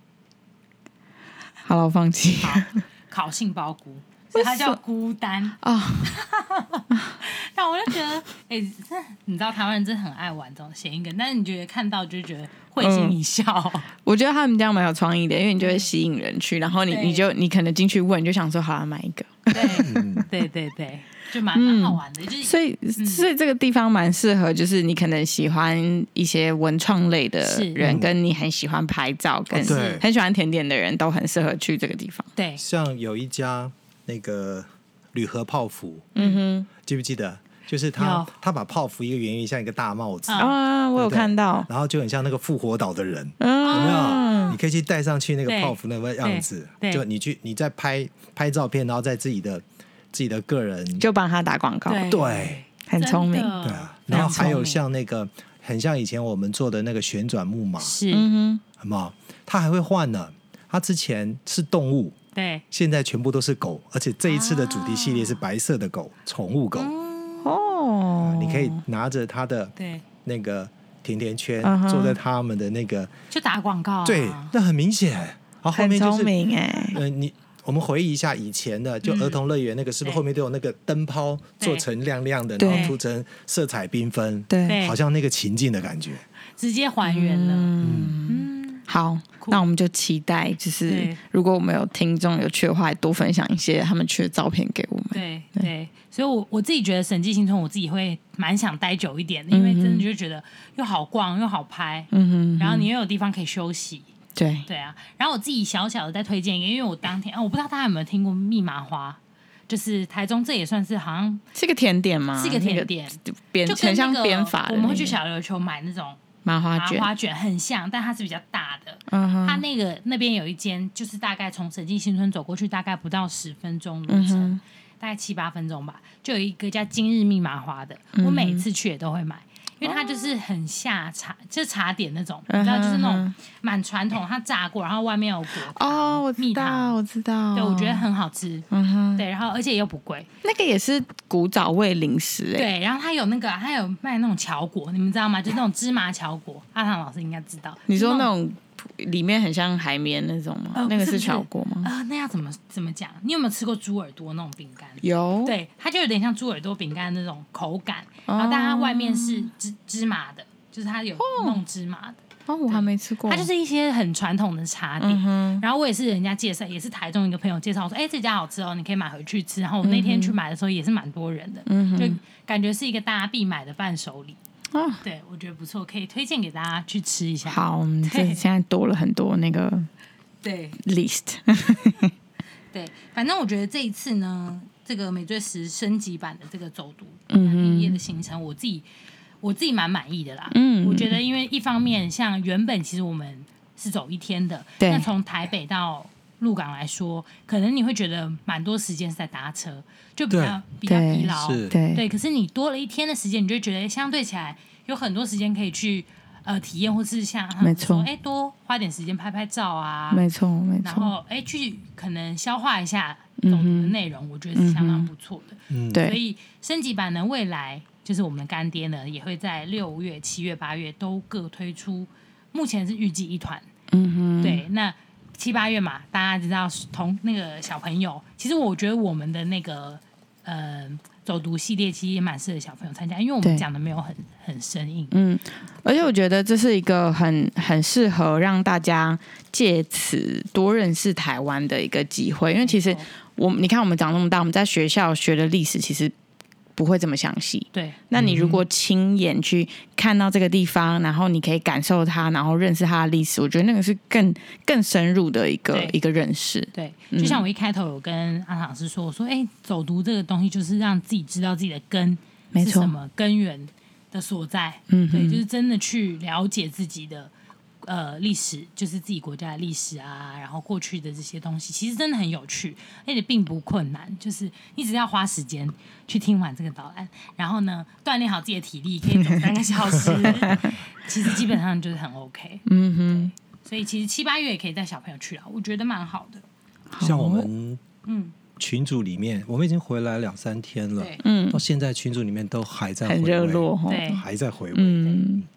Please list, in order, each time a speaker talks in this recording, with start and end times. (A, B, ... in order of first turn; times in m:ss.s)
0:01.6-0:02.8 A
0:02.4-0:13.9 B
0:04.4-0:04.8 A
0:05.6-0:06.2 A
0:12.8-0:13.2 A
0:14.0-0:20.0 A
0:15.6-0:15.9 B
0:16.9-0:17.2 B
0:19.5-0:23.3 B
0:19.8-0:20.3 C
0:21.5-0:32.3 A
0:27.4-0:27.8 B
0:27.8-0:28.1 C
0:29.5-0:30.0 C
0:29.6-0:30.0 B
0:32.4-0:32.6 B
0:32.6-0:36.1 C
0:36.2-0:36.4 B
0:36.2-0:36.7 A
0:36.7-0:51.0 C
0:38.0-0:38.3 B
0:40.2-0:40.5 B
0:40.4-0:41.7 A
0:43.4-0:44.6 A
0:43.6-0:44.6 B
0:45.4-0:47.0 B
0:51.0-0:52.2 A
0:51.9-0:54.8 B
0:52.1-0:52.6 C
0:52.8-0:53.6 A
0:53.6-0:58.0 C
0:54.1-0:54.5 A
0:57.8-0:58.3 B
0:58.1-0:58.6 A
0:58.8-1:02.2 C
1:02.3-1:02.6 B
1:02.7-1:06.9 C
1:04.3-1:05.4 B
1:06.8-1:07.5 B
1:07.4-1:08.8 A
1:08.2-1:13.1 C
1:09.8-1:10.0 B
1:11.6-1:12.2 A
1:13.3-1:14.5 B
1:14.0-1:16.4 C
1:15.7-1:17.0 A
1:16.9-1:26.2 C
1:19.0-1:19.4 B
1:21.6-1:21.8 B
1:22.6-1:23.0 A
1:22.6-1:23.0 B
1:24.5-1:24.8 A
1:24.6-1:25.0 B
1:26.6-1:27.7 B
1:27.0-1:35.7 A
1:27.8-1:28.2 C
1:28.3-1:28.8 B
1:30.8-1:31.2 B
1:35.1-1:44.1 B
1:39.5-1:40.0 A
1:42.1-1:42.9 A
1:44.3-1:44.7 A
1:44.6-1:51.4 B
1:51.5-1:55.2 A
1:52.4-1:56.2 B
1:56.4-1:57.1 A
1:56.7-2:17.0 B
1:59.1-1:59.6 A
2:04.1-2:04.6 A
2:08.2-2:08.6 A
2:09.8-2:10.4 A
2:12.5-2:13.3 A
2:15.7-2:18.0 A
2:17.5-2:20.3 B
2:18.7-2:19.2 A
2:20.4-2:22.7 A
2:22.5-2:28.3 B
2:27.9-2:31.9 A
2:30.8-2:54.4 B
2:35.0-2:35.5 A
2:38.3-2:39.5 A
2:41.2-2:41.6 A
2:42.5-2:43.5 A
2:45.0-2:45.6 A
2:49.8-2:50.4 A
2:51.7-2:52.2 A
2:54.7-2:55.0 A
2:55.0-2:58.4 B
2:57.4-2:59.9 A
3:00.4-3:00.8 B
3:00.8-3:02.1 A
3:02.7-3:08.8 B
3:07.3-3:08.0 A
3:09.4-3:30.2 B
3:10.5-3:11.2 A
3:14.8-3:15.0 A
3:20.3-3:20.6 C
3:20.8-3:22.0 A
3:21.3-3:21.7 C
3:27.6-3:28.1 A
3:30.1-3:31.1 A
3:30.8-3:43.7 B
3:33.4-3:33.9 A
3:34.5-3:35.1 A
3:35.7-3:36.0 C
3:35.9-3:36.2 A
3:43.9-3:44.6 A
3:44.4-3:55.2 B
3:55.1-4:06.1 A
4:02.6-4:03.0 B
4:06.8-4:17.4 A
4:08.1-4:08.6 C
4:15.7-4:16.0 B
4:16.7-4:27.3 B
4:22.5-4:22.9 A
4:24.9-4:25.4 A
4:27.8-4:46.4 B
4:40.1-4:40.6 C
4:40.4-4:40.7 A
4:42.7-4:43.3 A
4:46.9-4:47.5 A
4:47.0-4:47.8 C
4:48.0-4:48.3 B
4:48.6-4:55.4 C
4:51.0-4:51.2 B
4:51.2-4:51.6 A
4:53.0-4:54.2 A
4:53.9-4:54.2 B
4:54.7-4:55.4 A